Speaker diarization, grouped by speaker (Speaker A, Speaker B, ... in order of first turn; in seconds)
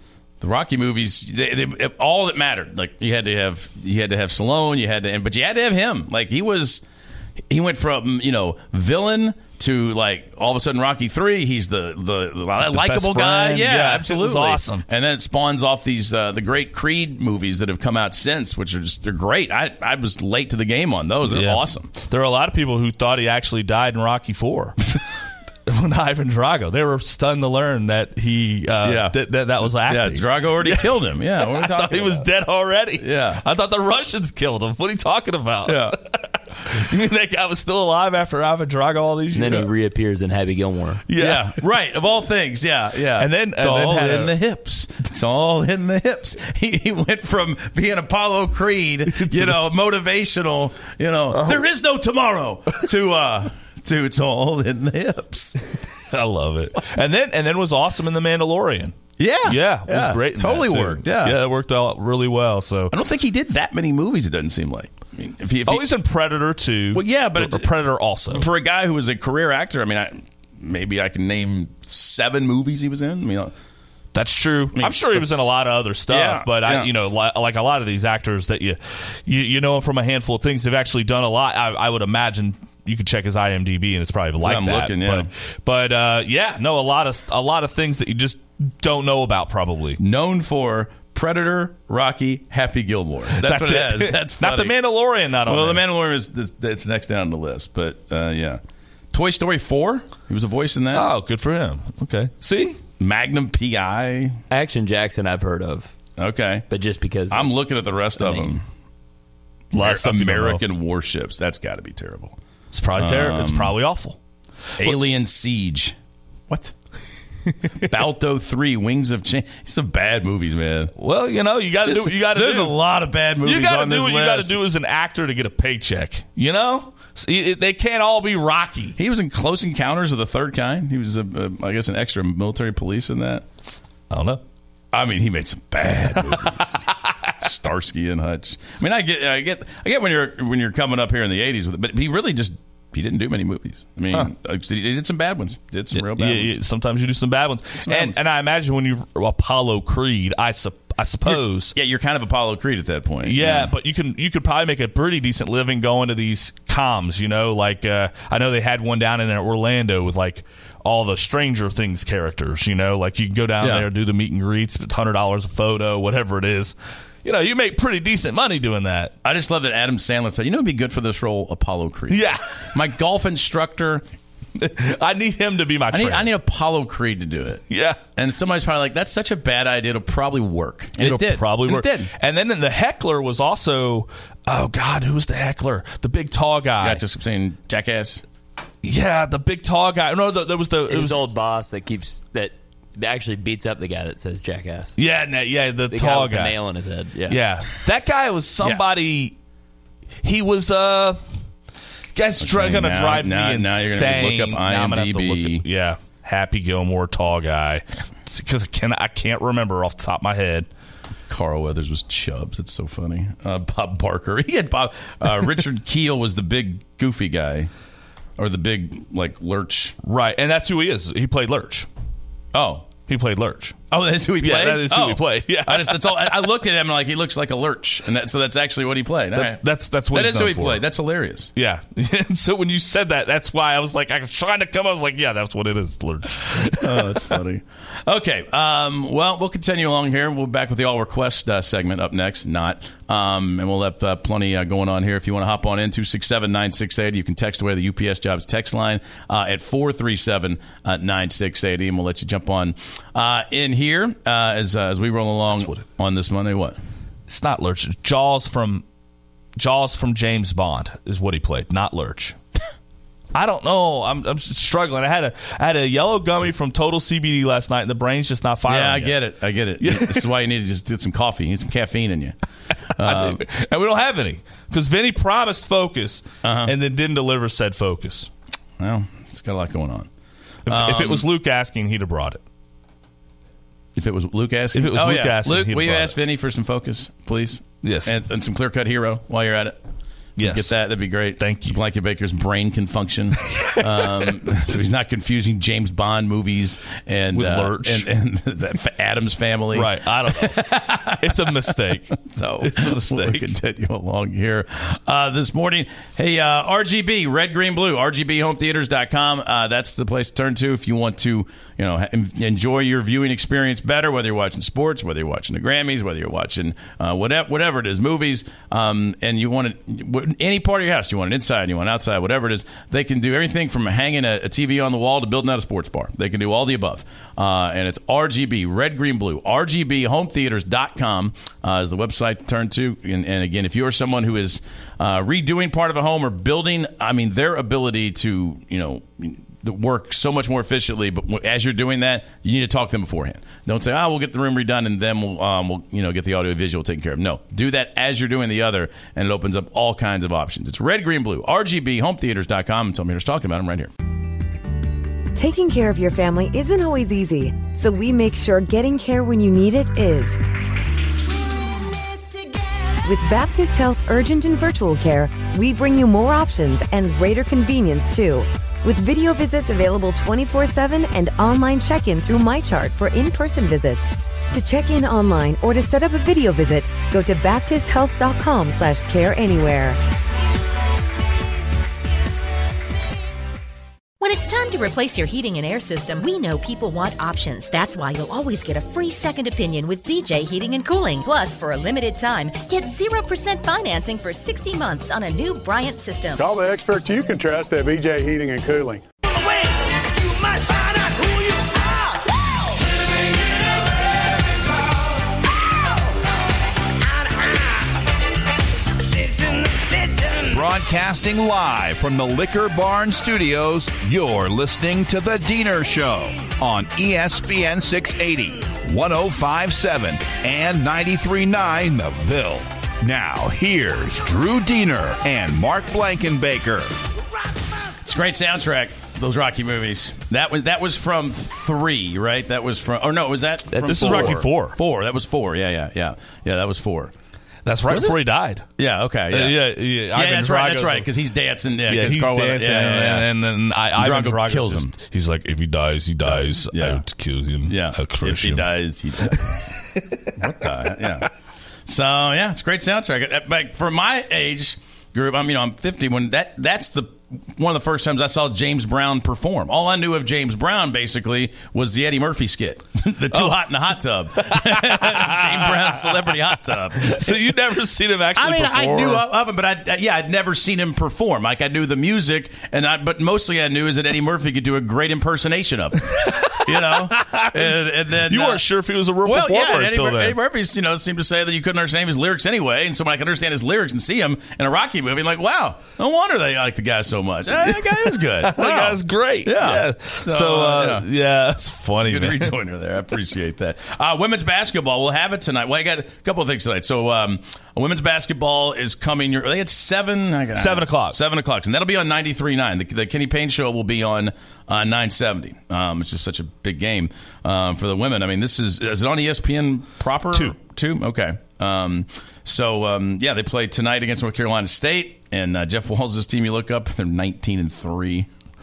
Speaker A: 0.4-6.8, 7.5-21.9, 28.8-32.3, 33.0-33.4, 35.7-36.0, 41.2-55.6, 59.2-61.4, 62.9-65.9, 66.9-67.7, 68.3-73.5, 74.8-75.3, 76.1-76.9, 84.4-85.3, 90.0-94.8, 95.5-98.6, 99.1-101.1, 103.0-104.4, 106.2-106.7, 107.3-108.6, 109.7-112.4, 113.0-113.8, 114.8-116.0, 116.5-116.8, 117.8-120.9, 121.8-124.6, 129.0-133.5, 134.9-136.9, 137.4-146.6, 147.8-148.2, 151.3-153.7, 163.6-163.9, 169.2-174.0, 175.9-177.6, 178.2-182.1, 186.8-188.2, 202.4-205.7, 211.3-217.7, 218.4-220.0, 222.5-222.9, 223.9-231.5, 236.7-256.8, 268.7-272.4, 272.9-273.4, 276.4-276.7, 278.8-280.1, 280.7-281.3, 283.9-289.8, 290.4-353.9, 428.0-437.1, 437.9-438.2, 438.8-443.3, 443.9-444.9, 446.2-447.0, 447.7-451.3, 451.9-467.4, 468.4-478.6, 479.2-491.1, 492.1-518.3
Speaker B: 12.6-14.8, 21.3-24.8, 25.7-39.7, 41.1-41.6, 43.2-44.3, 49.1-49.6, 51.3-51.6, 56.1-62.9, 65.7-68.5, 74.1-90.0, 93.3-95.8, 100.9-102.8, 109.7-110.6, 112.7-114.2, 121.0-122.8, 123.4-129.0, 134.1-134.4, 145.9-151.8, 153.2-169.2, 172.1-172.7, 174.6-176.3, 177.7-178.0, 181.0-187.0, 188.8-191.2, 195.0-196.6, 197.3-199.3, 200.2-201.2, 202.2-210.7, 220.0-221.9, 223.1-223.8, 224.4-226.4, 229.3-230.8, 231.6-237.4, 255.5-255.9, 257.3-258.8, 259.6-262.4, 263.4-269.2, 269.8-270.3, 273.0-278.3, 280.7-282.4, 284.7-286.2, 287.8-288.1, 290.4-290.8, 291.4-291.8, 293.5-294.7, 297.3-298.1, 299.7-303.5, 433.8-434.8, 437.6-438.7, 439.3-441.1, 441.9-448.7, 449.3-450.3, 464.4-466.3, 467.0-469.3, 476.1-477.7, 478.3-480.4, 487.6-492.5, 500.6-501.2
Speaker C: 39.3-41.0, 104.5-105.9, 106.7-107.5, 108.2-108.5, 190.9-195.0, 195.9-197.4, 433.7-434.4
Speaker D: 355.4-360.4, 363.0-380.0
Speaker E: 384.2-396.4
Speaker F: 396.4-399.0
Speaker G: 410.5-426.9